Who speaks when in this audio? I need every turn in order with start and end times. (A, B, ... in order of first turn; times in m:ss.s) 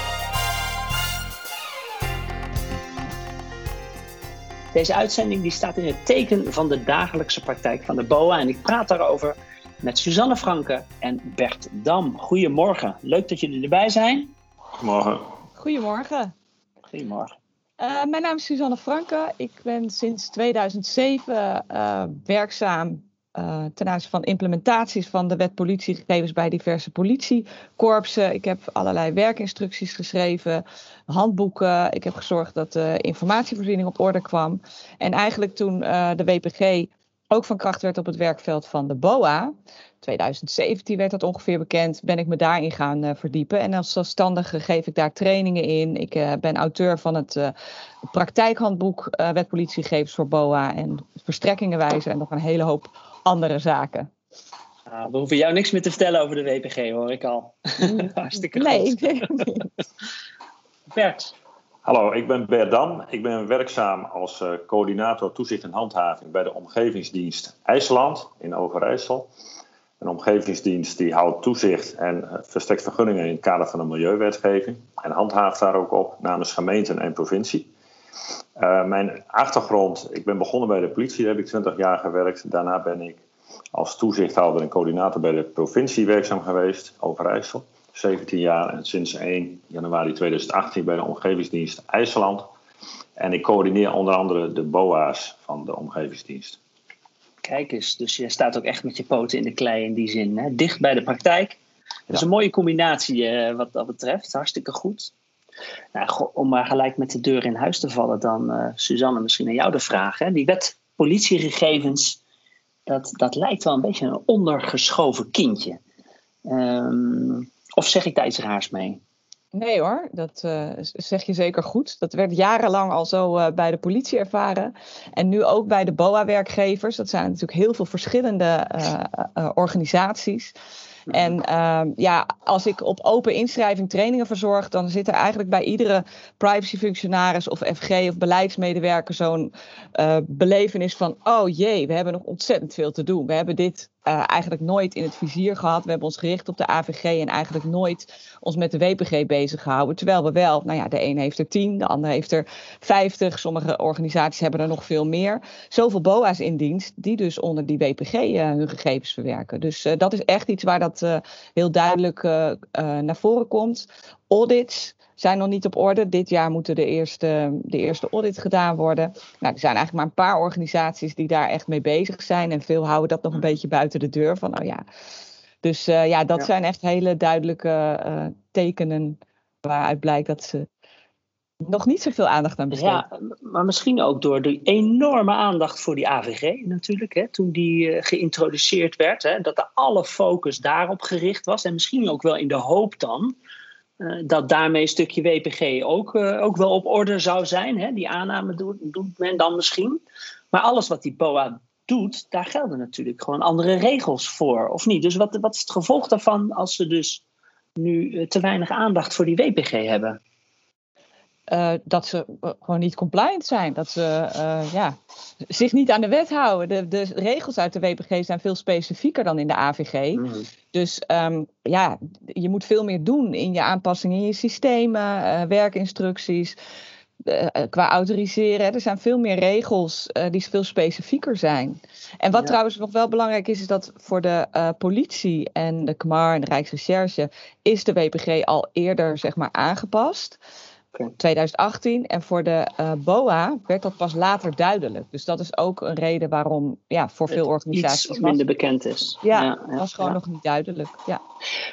0:04.7-0:14.3 A
0:14.8-0:15.3 B
0:15.6-0:16.3 C
0:16.9-0:17.4 A
0:17.8-0:47.5 C
0:48.1-0:54.1 C
0:54.9-0:59.5 A
0:57.8-0:59.7 C
1:00.9-1:01.3 A
1:01.8-1:09.3 B
1:10.0-1:17.7 B
1:18.6-1:23.2 B
1:23.7-1:32.5 B
1:33.2-1:36.6 B
1:37.4-1:41.6 A
1:42.1-1:45.1 A
1:45.9-1:52.2 A
1:52.9-1:55.8 A
1:56.5-1:59.0 A
1:59.5-2:10.5 C
2:11.1-2:54.8 C
2:55.6-3:00.7 C
3:01.6-3:03.0 C
3:02.7-3:13.4 A
3:14.0-3:20.0 A
3:20.5-3:27.2 A
3:27.8-3:30.2 A
3:31.5-3:46.6 C
3:40.2-3:40.5 A
3:47.2-4:00.4 C
4:01.2-4:08.4 C
4:07.3-4:10.2 A
4:09.2-4:11.2 C